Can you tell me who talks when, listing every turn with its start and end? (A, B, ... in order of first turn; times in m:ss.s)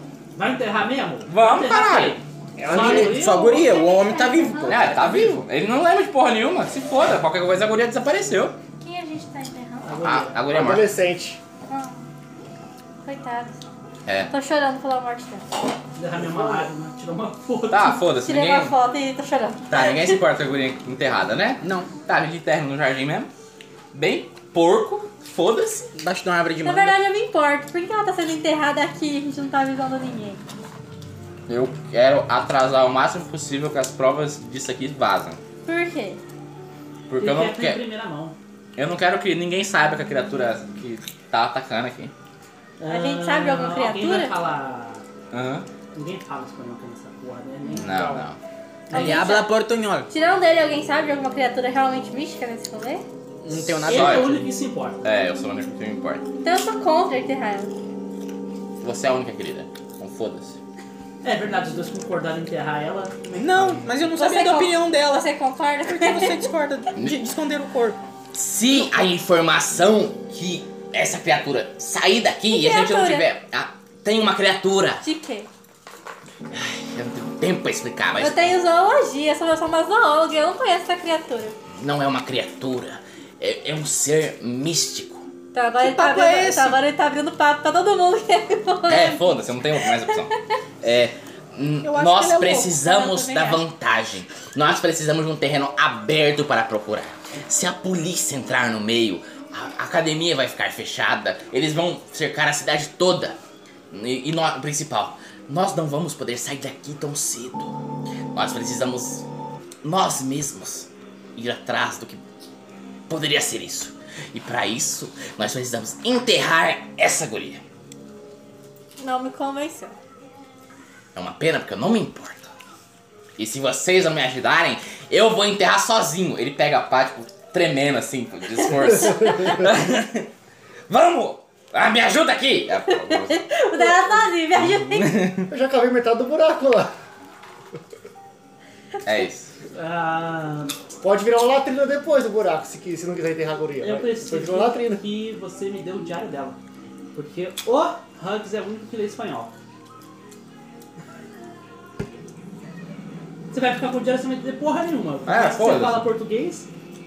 0:00.4-0:03.8 A
0:01.3-0:02.2 B
0:02.6-0:03.3 C
0:02.6-0:05.1 D
0:03.4-0:05.4 E
0:04.6-0:08.6 B
0:08.8-0:10.0 E
0:09.8-0:10.4 A
0:10.0-0:10.9 B
0:10.5-0:11.4 C
0:11.7-0:12.0 E
0:13.0-0:13.6 E
0:14.3-0:15.4 E
0:16.0-0:18.0 A
0:16.2-0:16.7 C
0:17.7-0:18.7 B
0:18.2-0:20.2 E
0:19.7-0:23.3 B
0:21.6-0:21.9 D
0:23.9-0:25.9 B
0:26.0-0:27.0 D
0:26.6-0:30.4 E
0:31.5-0:35.4 B
0:35.6-0:36.2 E
0:37.1-0:37.8 B
0:37.2-0:38.4 A
0:38.8-0:42.1 B
0:42.8-0:45.0 A
0:42.9-0:44.3 E
0:45.3-0:45.7 B
0:45.9-0:48.3 A
0:47.7-0:48.4 B
0:48.9-0:49.3 A
0:48.9-0:49.5 E
0:48.9-0:50.1 D
0:50.1-0:53.0 E
0:53.4-0:54.4 D
0:53.5-0:54.4 B
0:53.8-0:55.0 A
0:55.0-0:56.2 B
0:56.4-0:57.7 E
0:58.8-1:00.6 B
1:01.2-1:03.8 A
1:03.4-1:05.3 D
1:04.1-1:06.5 E
1:05.8-1:08.0 D
1:08.3-1:15.0 B
1:12.5-1:13.3 E
1:15.0-1:15.5 E
1:16.5-1:18.5 B
1:18.2-1:21.5 E
1:21.8-1:25.2 B
1:25.5-1:30.1 E
1:25.8-1:26.8 D
1:28.9-1:43.4 B
1:31.8-1:32.8 D
1:32.8-1:33.6 E
1:43.9-1:47.7 B
1:48.3-1:49.2 B
1:49.8-1:52.2 B
1:53.1-1:57.6 B
1:59.0-2:00.0 E
2:01.1-2:02.5 B
2:03.4-2:10.3 B
2:10.9-2:13.5 B
2:12.9-2:15.4 E
2:14.5-2:15.5 B
2:15.5-2:16.9 C
2:19.0-2:19.5 B
2:19.7-2:20.7 A
2:21.0-2:25.0 C
2:23.8-2:26.6 A
2:27.1-2:29.5 A
2:33.5-2:36.7 A
2:35.3-2:36.0 B